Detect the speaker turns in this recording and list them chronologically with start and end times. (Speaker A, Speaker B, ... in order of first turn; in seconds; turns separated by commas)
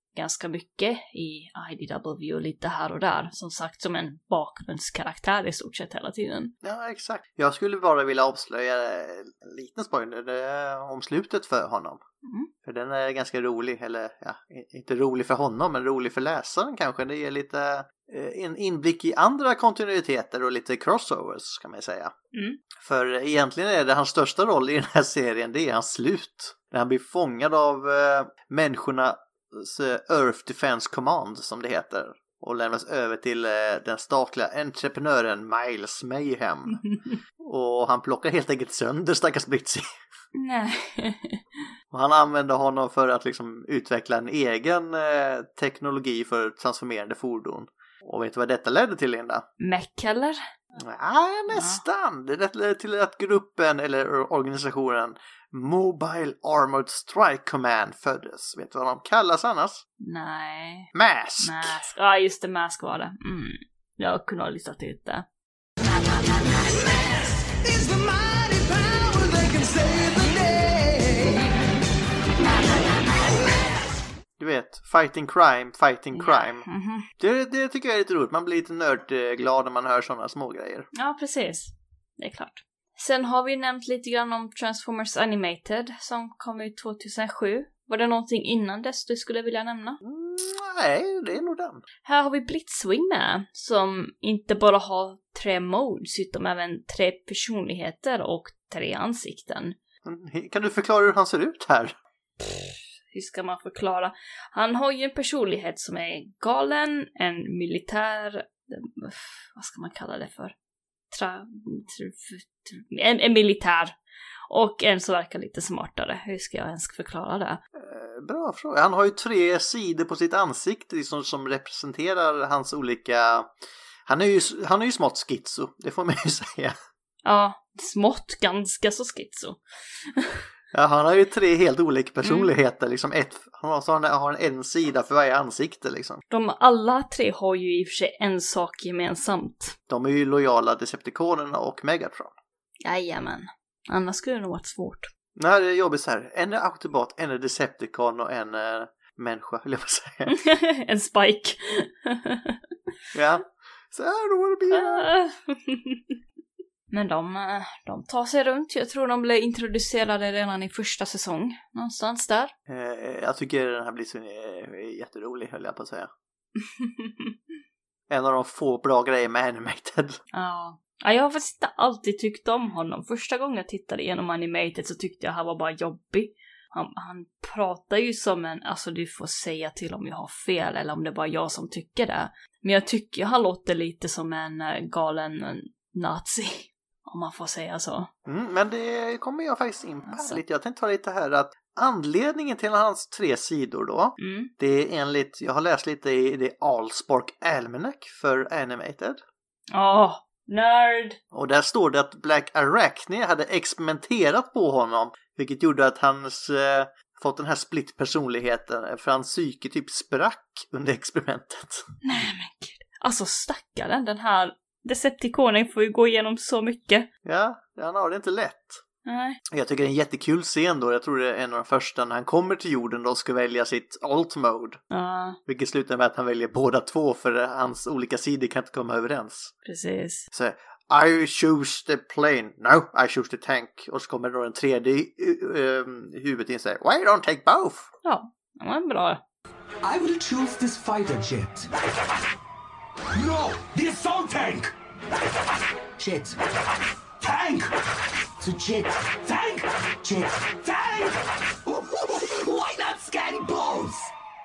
Speaker A: 0.1-6.5, Speaker B: 6.6-12.0, Speaker A: 12.2-12.5, Speaker B: 12.6-22.1, Speaker A: 22.3-22.6, Speaker B: 22.8-36.8, Speaker A: 36.7-37.2, Speaker B: 37.4-40.0, Speaker A: 40.3-41.4, Speaker B: 41.9-49.5, Speaker A: 49.6-50.4, Speaker B: 50.8-59.8, Speaker A: 51.5-51.8, Speaker A: 60.0-65.3, Speaker B: 60.9-61.8, Speaker C: 65.9-71.6, Speaker C: 72.4-73.7, Speaker B: 74.4-76.7, Speaker A: 76.1-77.1, Speaker B: 77.2-80.9, Speaker A: 80.9-90.0, Speaker B: 90.0-91.8, Speaker A: 92.0-99.8, Speaker B: 100.0-102.0, Speaker A: 102.4-110.5, Speaker A: 111.1-114.0, Speaker A: 114.5-117.6, Speaker B: 117.8-123.5, Speaker B: 124.1-126.8, Speaker A: 127.2-130.4, Speaker B: 130.7-136.2, Speaker A: 132.2-132.5, Speaker A: 136.3-139.8, Speaker B: 139.9-142.4, Speaker A: 142.8-145.1, Speaker B: 145.4-150.3, Speaker A: 150.3-152.6, Speaker B: 153.1-155.1, Speaker A: 154.7-156.2, Speaker A: 156.9-162.5, Speaker B: 162.7-166.1, Speaker A: 166.6-167.3, Speaker B: 168.1-170.2, Speaker A: 170.3-188.1, Speaker B: 188.3-199.2, Speaker A: 190.1-190.4, Speaker A: 194.2-194.5, Speaker A: 199.7-201.2, Speaker B: 201.3-211.9, Speaker A: 212.0-217.1, Speaker B: 217.2-218.8, Speaker A: 219.1-219.4, Speaker B: 219.5-224.8, Speaker A: 224.9-225.4, Speaker B: 225.5-229.5, Speaker A: 229.7-230.3, Speaker B: 230.3-237.9, Speaker A: 238.0-239.2, Speaker C: 239.8-241.7, Speaker C: 243.1-245.3, Speaker C: 246.0-246.4, Speaker C: 247.2-247.7, Speaker C: 248.4-254.1